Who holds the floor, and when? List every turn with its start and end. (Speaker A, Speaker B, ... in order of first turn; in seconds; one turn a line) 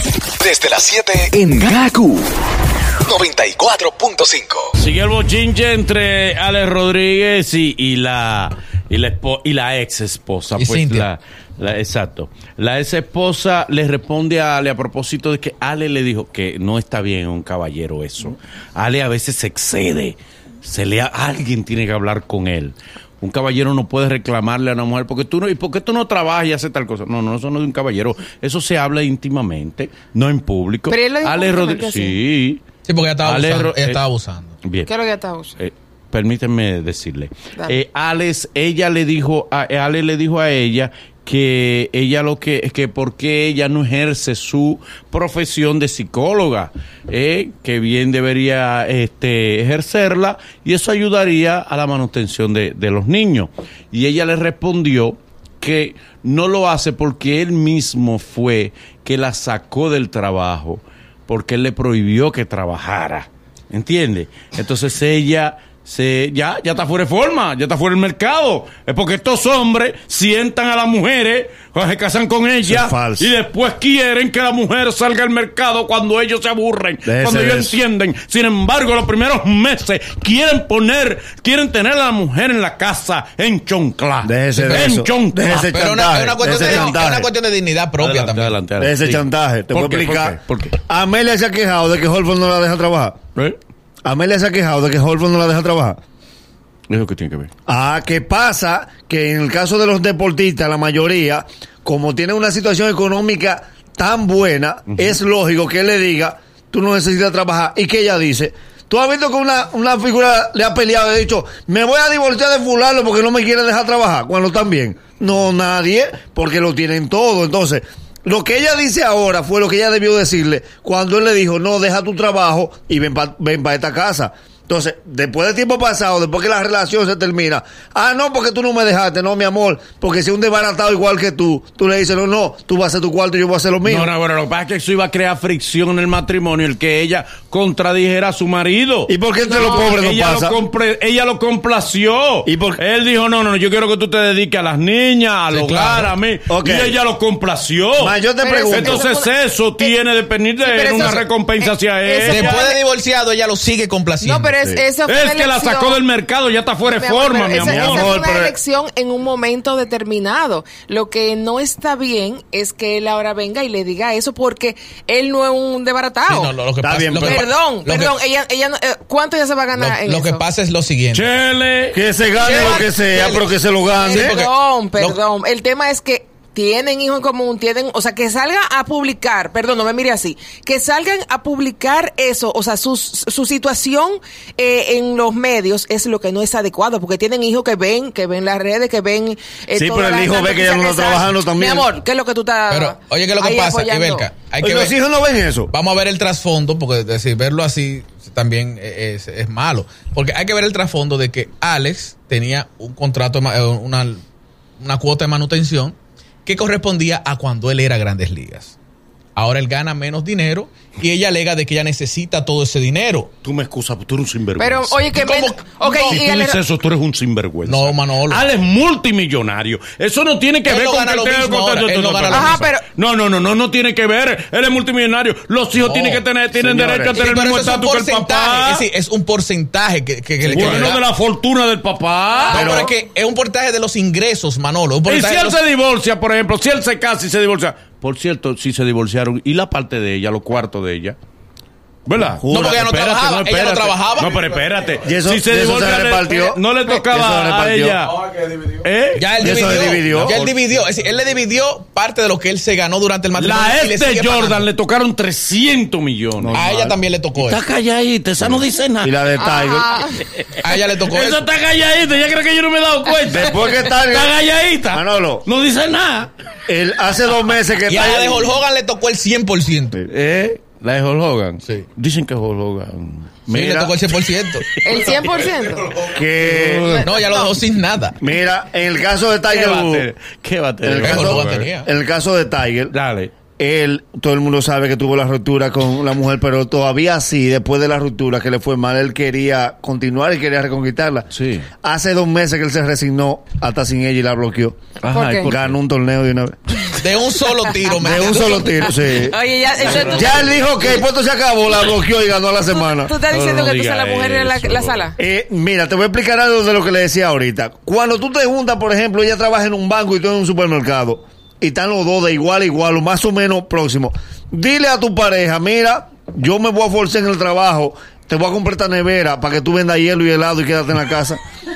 Speaker A: 0.4-2.2
Speaker A: 3.0-4.7
Speaker B: 4.8-32.6
Speaker C: 10.6-11.1
Speaker D: 30.9-32.2
Speaker C: 32.8-34.5
Speaker B: 33.2-34.0
Speaker B: 34.6-34.9
Speaker D: 34.9-35.6
Speaker B: 35.6-85.7
Speaker E: 72.7-73.3
Speaker E: 77.0-77.8
Speaker E: 84.2-87.3
Speaker C: 85.5-88.6
Speaker B: 86.4-87.0
Speaker B: 88.0-90.8
Speaker E: 88.8-93.2
Speaker E: 94.0-96.0
Speaker B: 96.9-97.5
Speaker E: 97.7-134.1
Speaker B: 104.9-105.2
Speaker B: 133.8-152.6
Speaker E: 139.1-140.6
Speaker D: 139.4-139.9
Speaker E: 142.4-142.8
Speaker C: 145.5-146.1
Speaker E: 146.5-147.0
Speaker E: 148.0-149.0
Speaker D: 148.4-149.9
Speaker D: 150.6-152.8
Speaker C: 152.3-154.6
Speaker D: 154.2-156.0
Speaker B: 154.7-158.2
Speaker D: 156.8-166.5
Speaker E: 157.5-158.5
Speaker C: 166.3-168.2
Speaker E: 166.8-167.4
Speaker D: 167.2-170.4
Speaker C: 169.7-171.3
Speaker B: 171.1-172.6
Speaker E: 171.9-174.4
Speaker D: 172.3-172.9
Speaker C: 172.4-175.2
Speaker D: 174.0-194.3
Speaker E: 189.8-191.9
Speaker C: 192.7-195.0
Speaker E: 194.6-195.7
Speaker C: 195.7-204.2
Speaker C: 204.8-208.8
Speaker C: 209.3-213.3
Speaker B: 213.4-215.2
Speaker D: 214.6-216.6
Speaker C: 215.1-216.3
Speaker B: 216.0-228.8
Speaker C: 217.7-218.4
Speaker C: 220.7-222.7
Speaker D: 222.3-222.8
Speaker C: 225.8-231.0
Speaker B: 230.4-232.6
Speaker E: 230.5-230.8
Speaker C: 232.5-235.6
Speaker E: 232.5-232.9
Speaker D: 232.6-232.9
Speaker B: 235.1-241.2
Speaker B: 242.1-248.2
Speaker E: 242.2-242.8
Speaker C: 242.5-244.5
Speaker E: 245.0-248.0
Speaker B: 248.8-250.7
Speaker C: 249.1-254.7
Speaker E: 249.4-250.4
Speaker B: 253.3-256.6
Speaker E: 256.4-256.9
Speaker C: 256.5-257.6
Speaker B: 257.3-259.2
Speaker E: 258.5-260.0
Speaker D: 259.4-260.2
Speaker B: 260.2-266.3
Speaker C: 260.6-261.4
Speaker E: 263.3-264.3
Speaker E: 264.9-265.4
Speaker E: 266.7-268.6
Speaker C: 267.9-270.0
Speaker B: 270.1-273.9
Speaker E: 273.5-273.9
Speaker C: 273.6-274.7
Speaker B: 274.6-275.5
Speaker D: 274.8-276.0
Speaker E: 276.0-277.0
Speaker B: 276.0-277.0
Speaker D: 276.8-277.5
Speaker C: 277.0-278.2
Speaker E: 278.2-280.1
Speaker B: 279.5-281.7
Speaker E: 280.8-282.9
Speaker C: 281.0-281.9
Speaker B: 282.9-283.3
Speaker E: 283.6-291.3
Speaker B: 291.3-291.7
Speaker E: 291.8-294.8
Speaker B: 295.0-295.8
Speaker D: 295.1-295.5
Speaker E: 295.4-296.5
Speaker C: 296.9-298.8
Speaker D: 297.5-298.2
Speaker E: 298.0-303.1
Speaker D: 298.8-300.8
Speaker B: 299.8-300.6
Speaker D: 302.7-305.2
Speaker B: 303.3-305.1
Speaker E: 305.2-321.4